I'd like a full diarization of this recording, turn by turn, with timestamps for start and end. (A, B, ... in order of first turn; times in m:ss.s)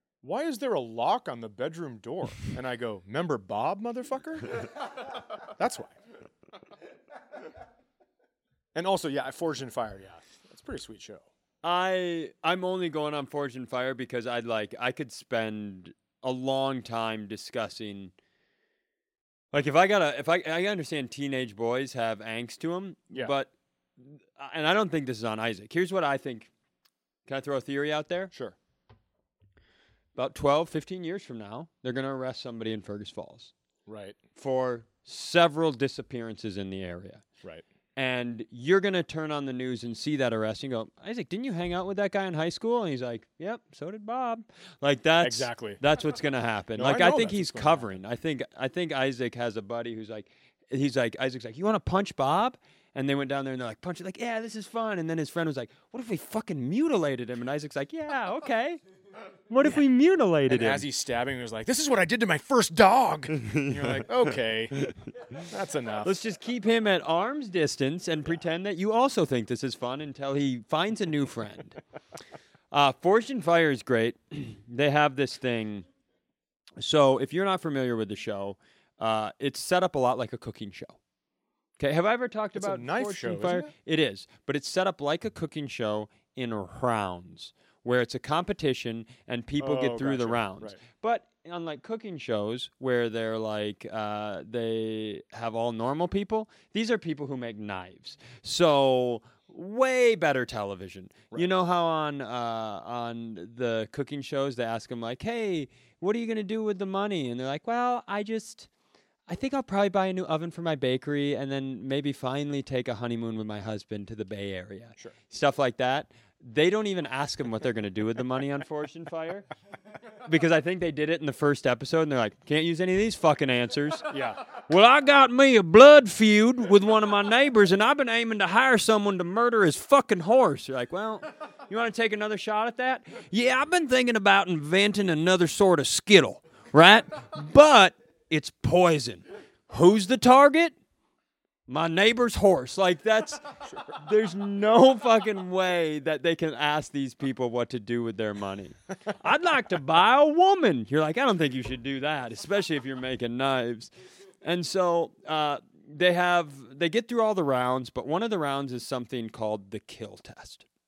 0:00.2-0:04.8 A
0:05.4-0:06.0 A
0:08.8-0:11.3 A
0:11.6-0:18.1 B
0:19.5-0:26.5 B
0:27.3-0:28.3 B
0:30.2-0:33.5 B
0:33.9-0:34.2 A
0:34.4-0:37.3 B
0:38.0-0:58.8 B
0:45.2-0:45.8 A
0:46.8-0:48.0 A
0:59.5-1:00.8 B
1:00.5-1:04.8 A
1:03.4-1:05.0 B
1:05.5-1:06.2 A
1:06.0-1:11.8 B
1:12.7-1:15.9 B
1:16.8-1:21.0 B
1:21.8-1:48.7 B
1:22.5-1:23.7 A
1:29.6-1:30.8 A
1:49.3-1:59.5 B
2:00.2-2:20.8 B
2:04.1-2:04.4 A
2:21.7-2:40.6 B